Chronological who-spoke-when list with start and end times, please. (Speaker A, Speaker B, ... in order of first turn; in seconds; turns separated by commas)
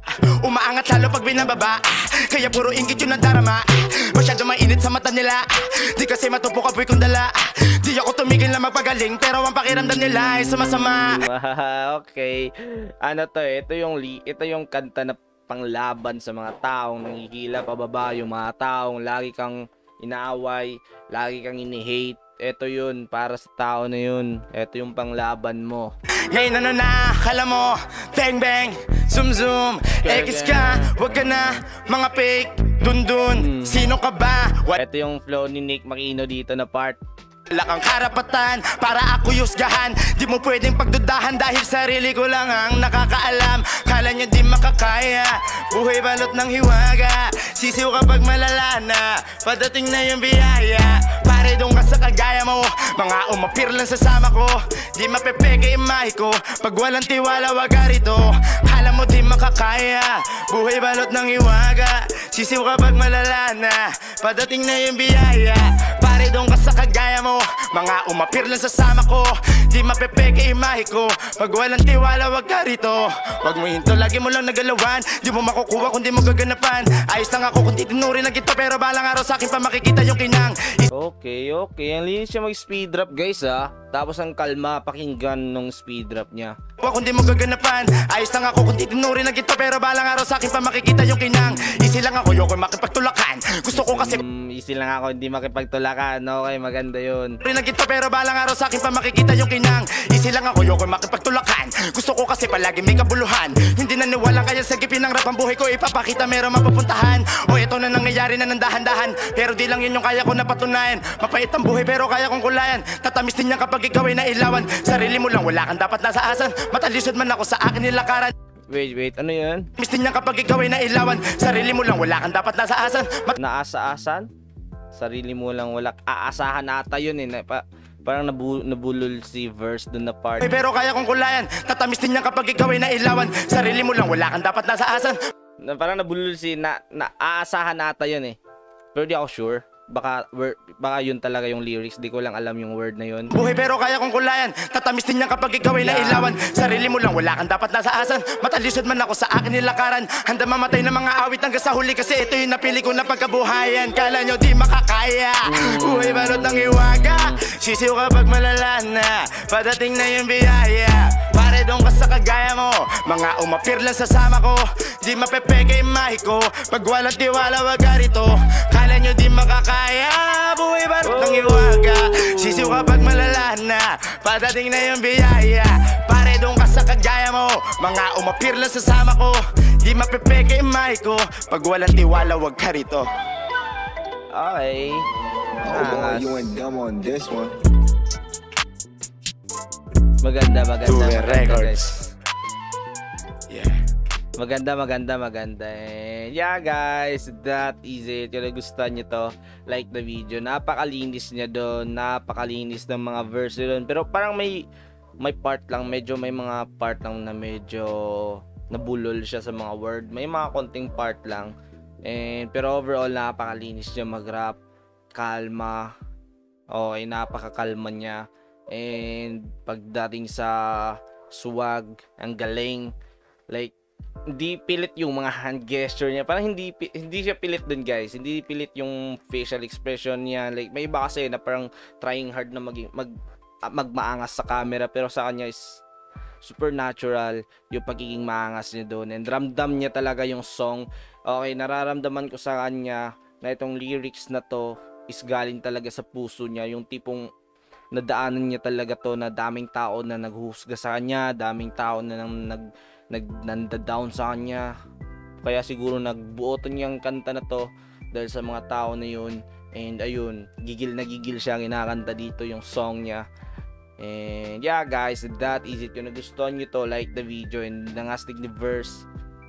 Speaker A: 0.2-11.2, Speaker B: 11.1-25.9, Speaker A: 26.3-34.8, Speaker B: 30.0-30.9, Speaker B: 33.4-33.8, Speaker B: 34.8-37.0, Speaker A: 37.5-80.9, Speaker B: 80.9-86.6, Speaker A: 86.8-94.2, Speaker B: 93.7-97.4, Speaker A: 97.4-118.3, Speaker B: 118.7-119.7, Speaker A: 119.8-123.3, Speaker B: 123.3-124.3, Speaker B: 124.9-130.5, Speaker A: 130.4-135.2, Speaker B: 135.6-138.4, Speaker B: 138.9-143.3, Speaker A: 143.3-183.1, Speaker B: 145.8-146.3, Speaker B: 155.5-156.2, Speaker B: 171.0-173.4, Speaker B: 184.3-185.1, Speaker B: 185.6-186.6, Speaker C: 185.6-187.6, Speaker B: 190.2-191.9, Speaker A: 190.8-192.0, Speaker B: 194.4-204.7, Speaker B: 205.2-211.5, Speaker B: 212.0-214.6, Speaker B: 215.1-215.9, Speaker B: 216.7-222.9, Speaker B: 223.5-223.8, Speaker B: 224.3-233.1, Speaker B: 233.7-235.8, Speaker B: 236.4-247.3, Speaker B: 247.9-254.7, Speaker B: 255.4-263.2, Speaker B: 264.0-269.1